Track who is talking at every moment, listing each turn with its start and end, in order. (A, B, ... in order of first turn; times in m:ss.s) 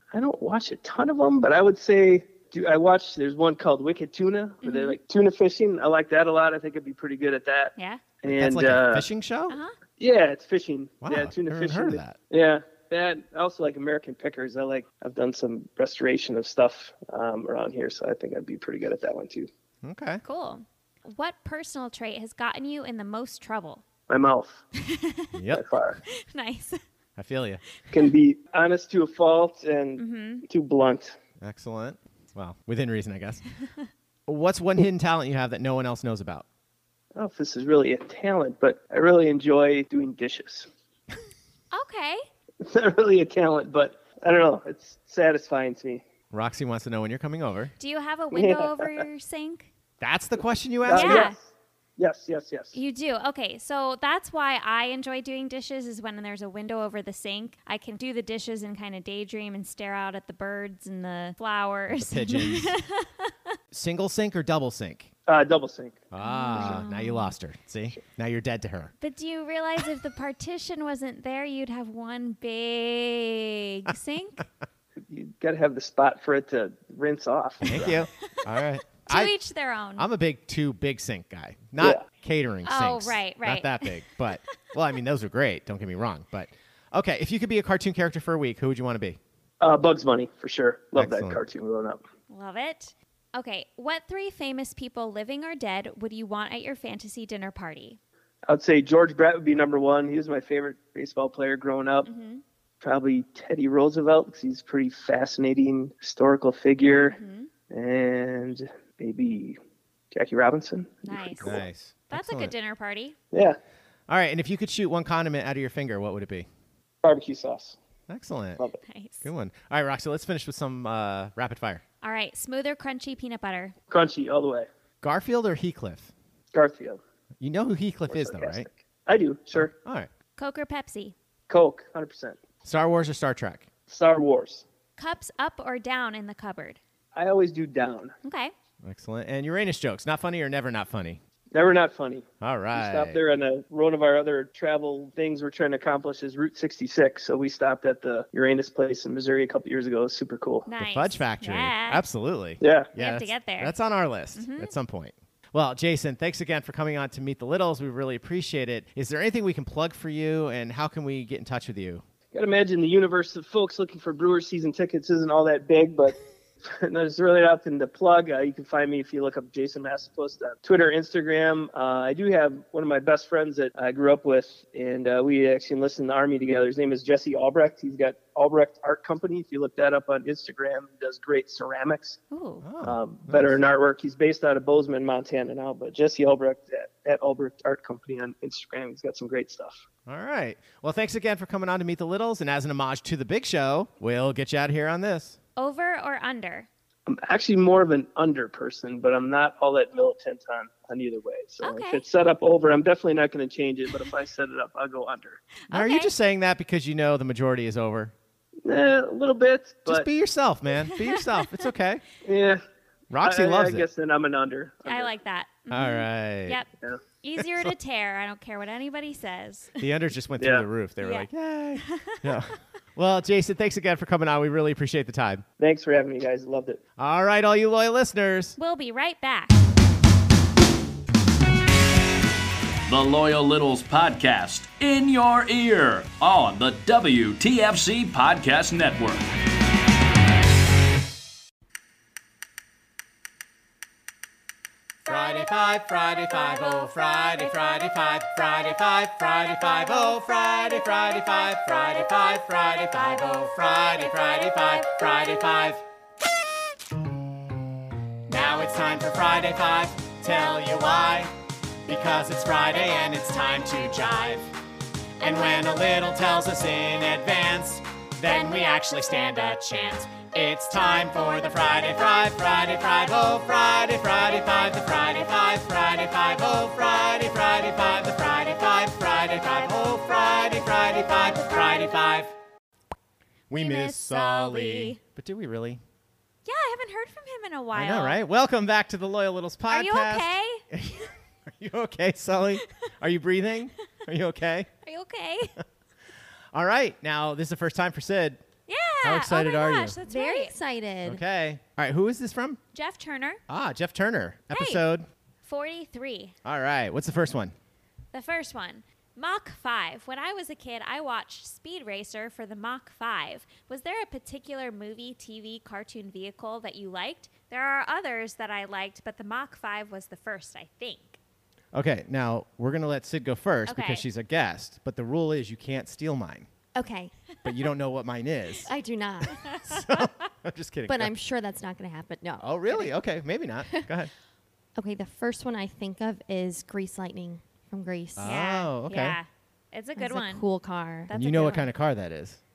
0:00.1-0:09.0 A
0:04.6-0:05.0 B
0:07.8-0:08.0 B
0:08.2-0:09.6 C
0:09.5-0:09.7 B
0:10.0-0:19.5 A
0:11.0-0:12.2 C
0:19.8-0:20.2 C
0:20.2-0:23.8 B
0:24.1-0:24.6 A
0:24.8-0:25.3 B
0:25.3-0:25.6 C
0:25.5-0:26.0 A
0:26.1-0:26.8 B
0:27.2-0:27.6 C
0:27.9-0:31.2 A
0:30.0-0:30.4 B
0:31.4-0:33.4 C
0:34.3-0:36.4 C
0:37.1-0:40.7 A
0:41.7-0:42.2 B
0:42.6-0:46.0 A
0:46.3-0:47.7 C
0:47.8-0:49.7 B
0:48.3-0:49.0 A
0:50.0-0:51.3 C
0:50.8-0:52.7 A
0:50.9-0:51.4 B
0:52.7-1:03.3 B
1:02.0-1:02.7 C
1:03.7-1:05.1 C
1:05.3-1:06.0 A
1:06.1-1:08.9 C
1:06.2-1:07.3 B
1:06.6-1:06.8 A
1:09.0-1:14.4 B
1:15.1-1:18.0 A
1:17.6-1:19.3 C
1:19.0-1:20.1 B
1:20.0-1:29.2 C
1:22.6-1:24.0 B
1:29.6-1:32.0 A
1:31.0-1:31.4 C
1:32.3-1:38.0 B
1:38.5-1:42.1 A
1:42.0-1:42.4 B
1:42.8-1:47.2 A
1:46.9-1:47.5 B
1:47.7-1:49.6 A
1:50.1-1:51.6 A
1:51.0-1:53.1 B
1:51.4-1:52.5 C
1:53.3-1:53.6 A
1:54.1-1:56.5 C
1:57.0-1:57.8 A
1:58.1-1:58.6 C
1:58.9-1:59.3 B
1:59.2-2:01.8 C
2:02.0-2:03.7 B
2:03.9-2:04.7 A
2:05.0-2:06.1 C
2:06.5-2:07.0 A
2:07.4-2:08.7 C
2:08.1-2:09.7 A
2:09.5-2:10.1 C
2:10.4-2:11.1 B
2:11.5-2:12.4 A
2:12.6-2:13.7 C
2:13.9-2:14.6 A
2:15.0-2:16.8 B
2:17.1-2:18.1 A
2:18.2-2:18.5 B
2:18.8-2:21.2 C
2:21.5-2:30.7 A
2:22.4-2:23.2 C
2:30.6-2:32.0 B
2:30.8-2:42.0 C
2:32.6-2:32.9 A
2:33.0-2:33.7 B
2:34.3-2:34.7 B
2:42.3-3:02.2 A
3:02.3-3:02.6 B
3:02.6-3:03.6 C
3:02.8-3:09.8 A
3:10.0-3:15.4 C
3:15.6-3:16.7 B
3:17.1-3:25.4 A
3:21.6-3:22.0 B
3:25.7-3:26.1 B
3:25.7-3:28.1 C
3:28.6-3:30.1 A
3:29.9-3:32.0 C
3:30.9-3:31.5 B
3:32.2-3:32.6 A
3:33.1-3:33.9 C
3:33.2-3:35.1 A
3:34.9-3:36.7 B
3:35.7-3:36.6 C
3:37.2-3:39.8 B
3:37.4-3:37.7 C
3:39.8-3:45.4 C
3:40.4-3:40.6 A
3:41.0-3:42.3 B
3:45.6-3:46.8 A
3:47.0-3:48.6 C
3:48.6-3:49.6 B
3:52.9-3:59.3 D
4:05.0-4:08.3 B
4:05.1-4:15.8 C
4:09.6-4:15.7 B
4:18.3-4:21.3 C
4:18.3-4:19.0 B
4:21.9-4:24.5 C
4:23.0-4:24.4 B
4:25.2-4:42.3 C
4:25.2-4:26.1 B
4:28.3-4:30.3 B
4:30.9-4:31.9 B
4:39.5-4:40.0 B
4:41.3-4:41.9 B
4:43.5-4:45.8 C
4:43.6-4:45.0 B
4:46.4-4:48.2 B
4:47.7-4:54.7 C
4:49.7-4:50.6 B
4:54.8-4:55.6 B
4:56.5-4:58.4 C
4:58.7-5:00.6 B
4:59.0-5:00.0 C
5:00.0-5:01.2 E
5:01.0-5:02.6 C
5:02.7-5:03.4 B
5:03.5-5:05.1 C
5:04.5-5:04.8 B
5:05.4-5:06.3 B
5:06.4-5:07.6 C
5:08.1-5:21.2 B
5:21.7-5:26.5 C
5:23.6-5:24.0 B
5:26.7-5:27.1 E
5:27.4-5:28.7 C
5:28.7-5:29.5 E
5:29.4-5:31.1 C
5:29.5-5:30.1 B
5:30.9-5:32.9 E
5:32.4-5:34.1 C
5:34.8-5:38.4 E
5:38.2-5:39.2 C
5:38.2-5:40.4 B
5:40.0-5:41.1 E
5:41.1-5:41.7 B
5:41.1-5:42.4 C